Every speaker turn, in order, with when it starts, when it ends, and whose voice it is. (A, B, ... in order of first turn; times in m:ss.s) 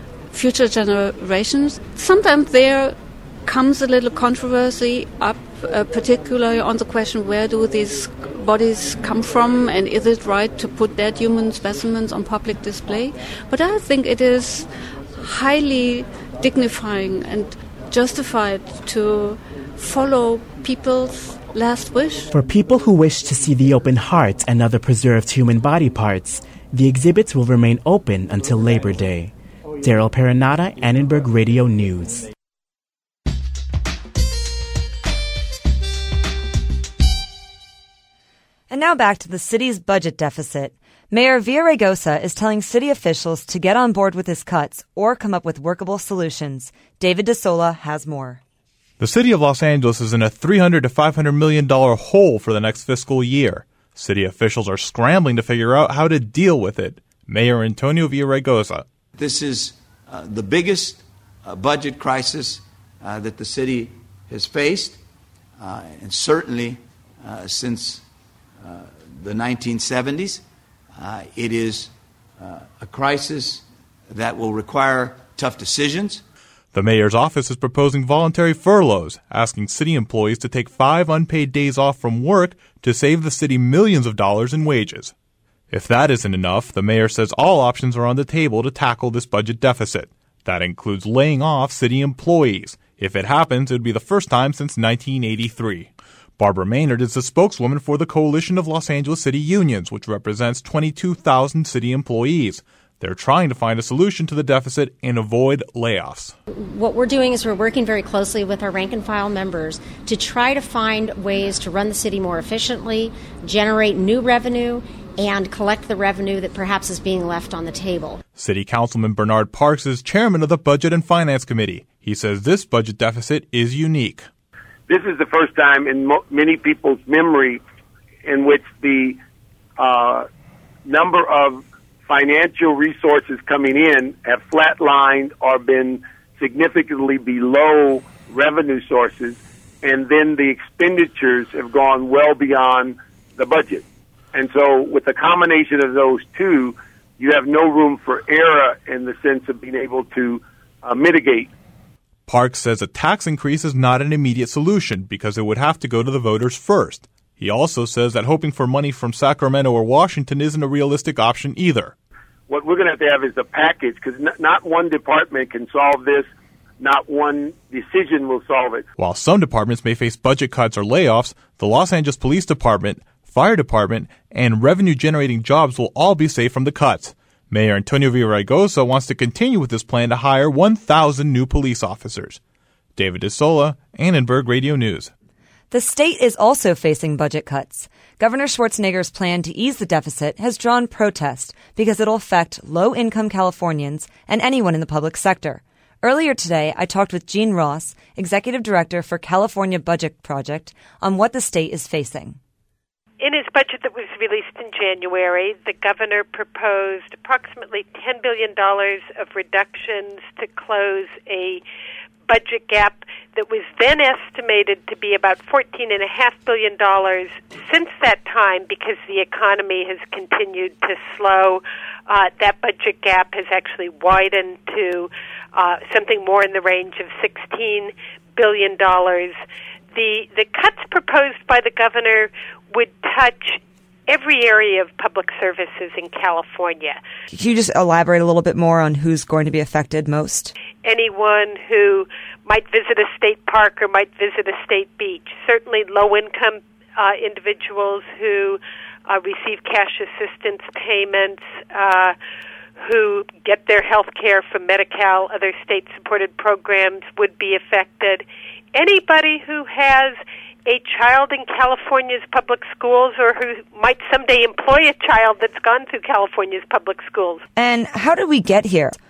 0:00.3-0:22.3 A
0:22.3-0:32.3 B
0:38.7-0:48.4 C
0:49.0-0:58.8 D
0:59.2-1:05.0 E
1:05.6-1:08.0 E
1:08.6-1:10.4 E
1:11.0-1:16.2 E
1:16.7-1:25.1 D
1:25.7-1:46.4 D
1:46.5-1:58.2 F
1:58.4-2:04.2 D
2:04.9-2:07.6 G
2:08.3-2:09.2 G
2:09.8-2:10.3 G
2:10.9-2:31.5 G
2:32.3-2:41.9 D
2:42.5-2:46.3 G
2:46.8-2:48.8 G
2:49.0-3:02.4 D
3:03.0-3:05.1 D
3:05.7-3:22.4 C
3:23.2-3:31.6 H
3:32.3-3:49.4 H
3:49.9-3:57.0 H
3:57.3-4:00.5 C
4:00.8-4:12.1 H
4:12.8-4:27.4 H
4:27.6-4:29.0 C